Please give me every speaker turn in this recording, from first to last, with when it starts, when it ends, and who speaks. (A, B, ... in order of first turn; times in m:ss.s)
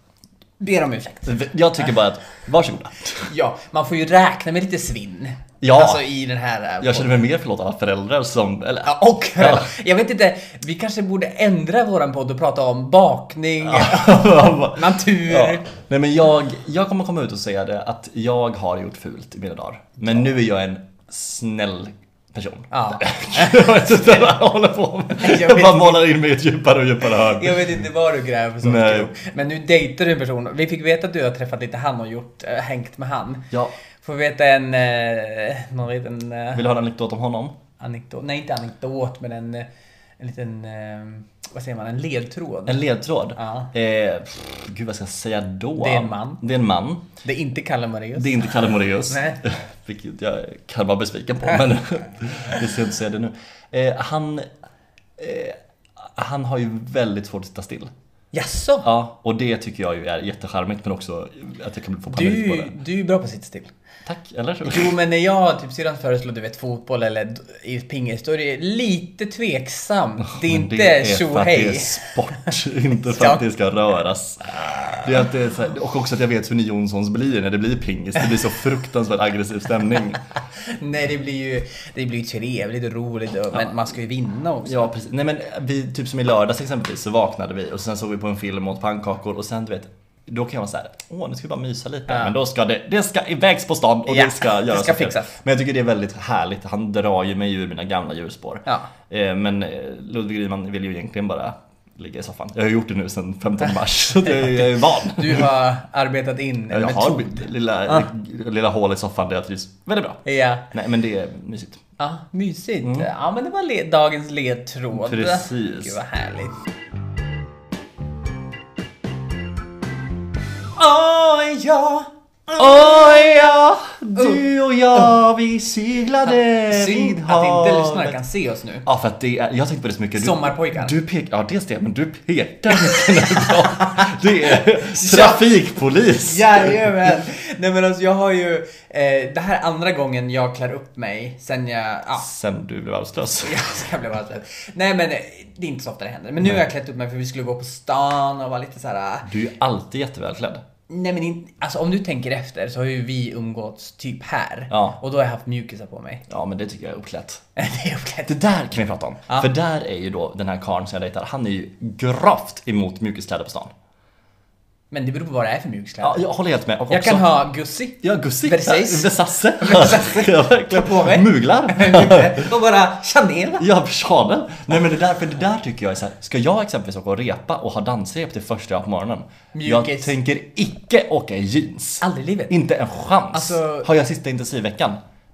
0:00.6-0:01.4 A
0:01.2-0:03.3 B
0:03.2-0:07.2 A
0:05.6-0:06.0 B
0:06.8-0:09.7 B
0:08.8-0:15.7 A
0:13.6-0:27.7 B
0:22.7-0:24.3 A
0:25.1-0:26.1 A
0:27.1-0:33.5 A
0:28.6-0:29.1 B
0:34.0-0:36.6 A
0:36.5-0:37.6 B
0:37.8-0:39.7 A
0:40.2-0:42.8 A
0:42.6-0:47.1 B
0:43.4-0:43.7 A
0:45.8-0:46.4 A
0:47.2-0:49.4 A
0:48.2-0:54.5 B
0:55.2-0:57.9 B
0:58.3-0:58.9 A
0:58.8-1:02.7 B
1:02.1-1:03.7 A
1:04.0-1:04.9 B
1:04.6-1:12.5 A
1:10.3-1:20.2 B
1:13.1-1:13.4 A
1:14.7-1:15.1 A
1:20.6-1:24.9 A
1:24.6-1:45.5 B
1:32.1-1:32.3 A
1:34.1-1:35.3 A
1:38.6-1:38.9 A
1:44.2-1:48.1 A
1:46.7-1:50.2 B
1:50.2-1:50.6 A
1:50.7-1:51.8 B
1:52.0-1:56.5 A
1:52.8-1:53.1 B
1:54.9-1:56.0 B
2:00.8-2:02.6 A
2:02.5-2:08.2 B
2:04.2-2:04.4 A
2:06.2-2:08.9 A
2:08.8-2:17.1 B
2:10.2-2:10.9 A
2:12.9-2:15.5 A
2:16.0-2:22.2 A
2:22.2-2:23.6 B
2:23.4-2:29.3 A
2:29.2-2:30.6 B
2:30.9-2:36.2 A
2:34.7-2:35.0 B
2:36.3-2:37.4 B
2:37.6-2:38.3 A
2:38.2-2:43.7 B
2:44.9-2:46.2 A
2:46.0-2:47.3 B
2:46.9-2:53.7 A
2:48.0-2:52.5 B
2:53.6-3:05.0 B
2:59.5-3:00.1 A
3:02.0-3:02.5 A
3:03.3-3:03.9 A